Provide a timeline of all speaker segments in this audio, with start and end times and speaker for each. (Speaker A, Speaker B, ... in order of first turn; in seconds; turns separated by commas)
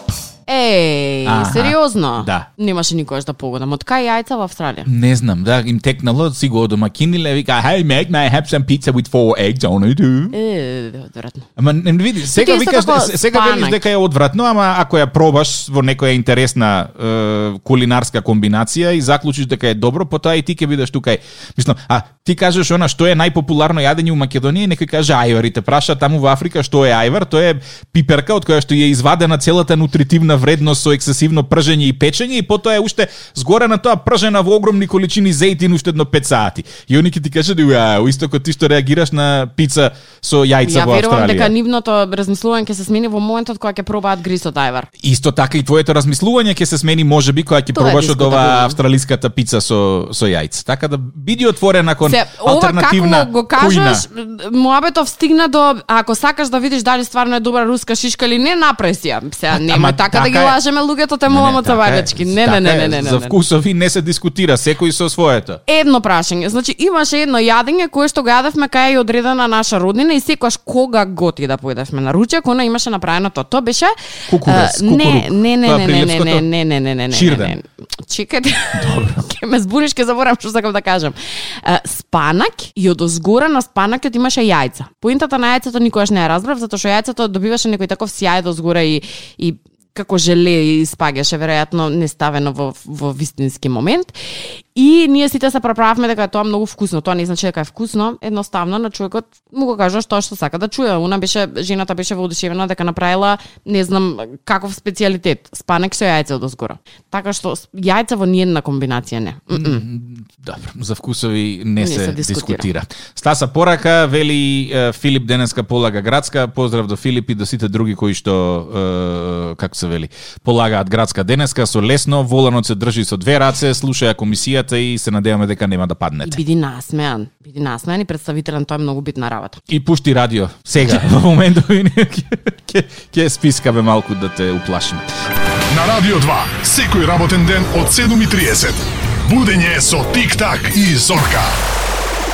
Speaker A: 0.5-4.9, Speaker B: 1.2-2.5, Speaker B: 4.9-10.4, Speaker A: 10.3-11.5, Speaker B: 11.6-41.5, Speaker A: 12.3-13.8, Speaker A: 40.6-44.9, Speaker B: 45.0-54.0, Speaker A: 47.7-48.8, Speaker A: 52.0-63.4, Speaker B: 59.5-60.6, Speaker B: 61.2-65.6, Speaker A: 65.7-109.8, Speaker B: 74.3-76.4, Speaker B: 77.1-77.5, Speaker B: 78.8-79.2, Speaker B: 109.5-126.4, Speaker A: 111.8-112.7, Speaker A: 126.2-129.6, Speaker B: 129.7-135.1, Speaker C: 135.7-141.6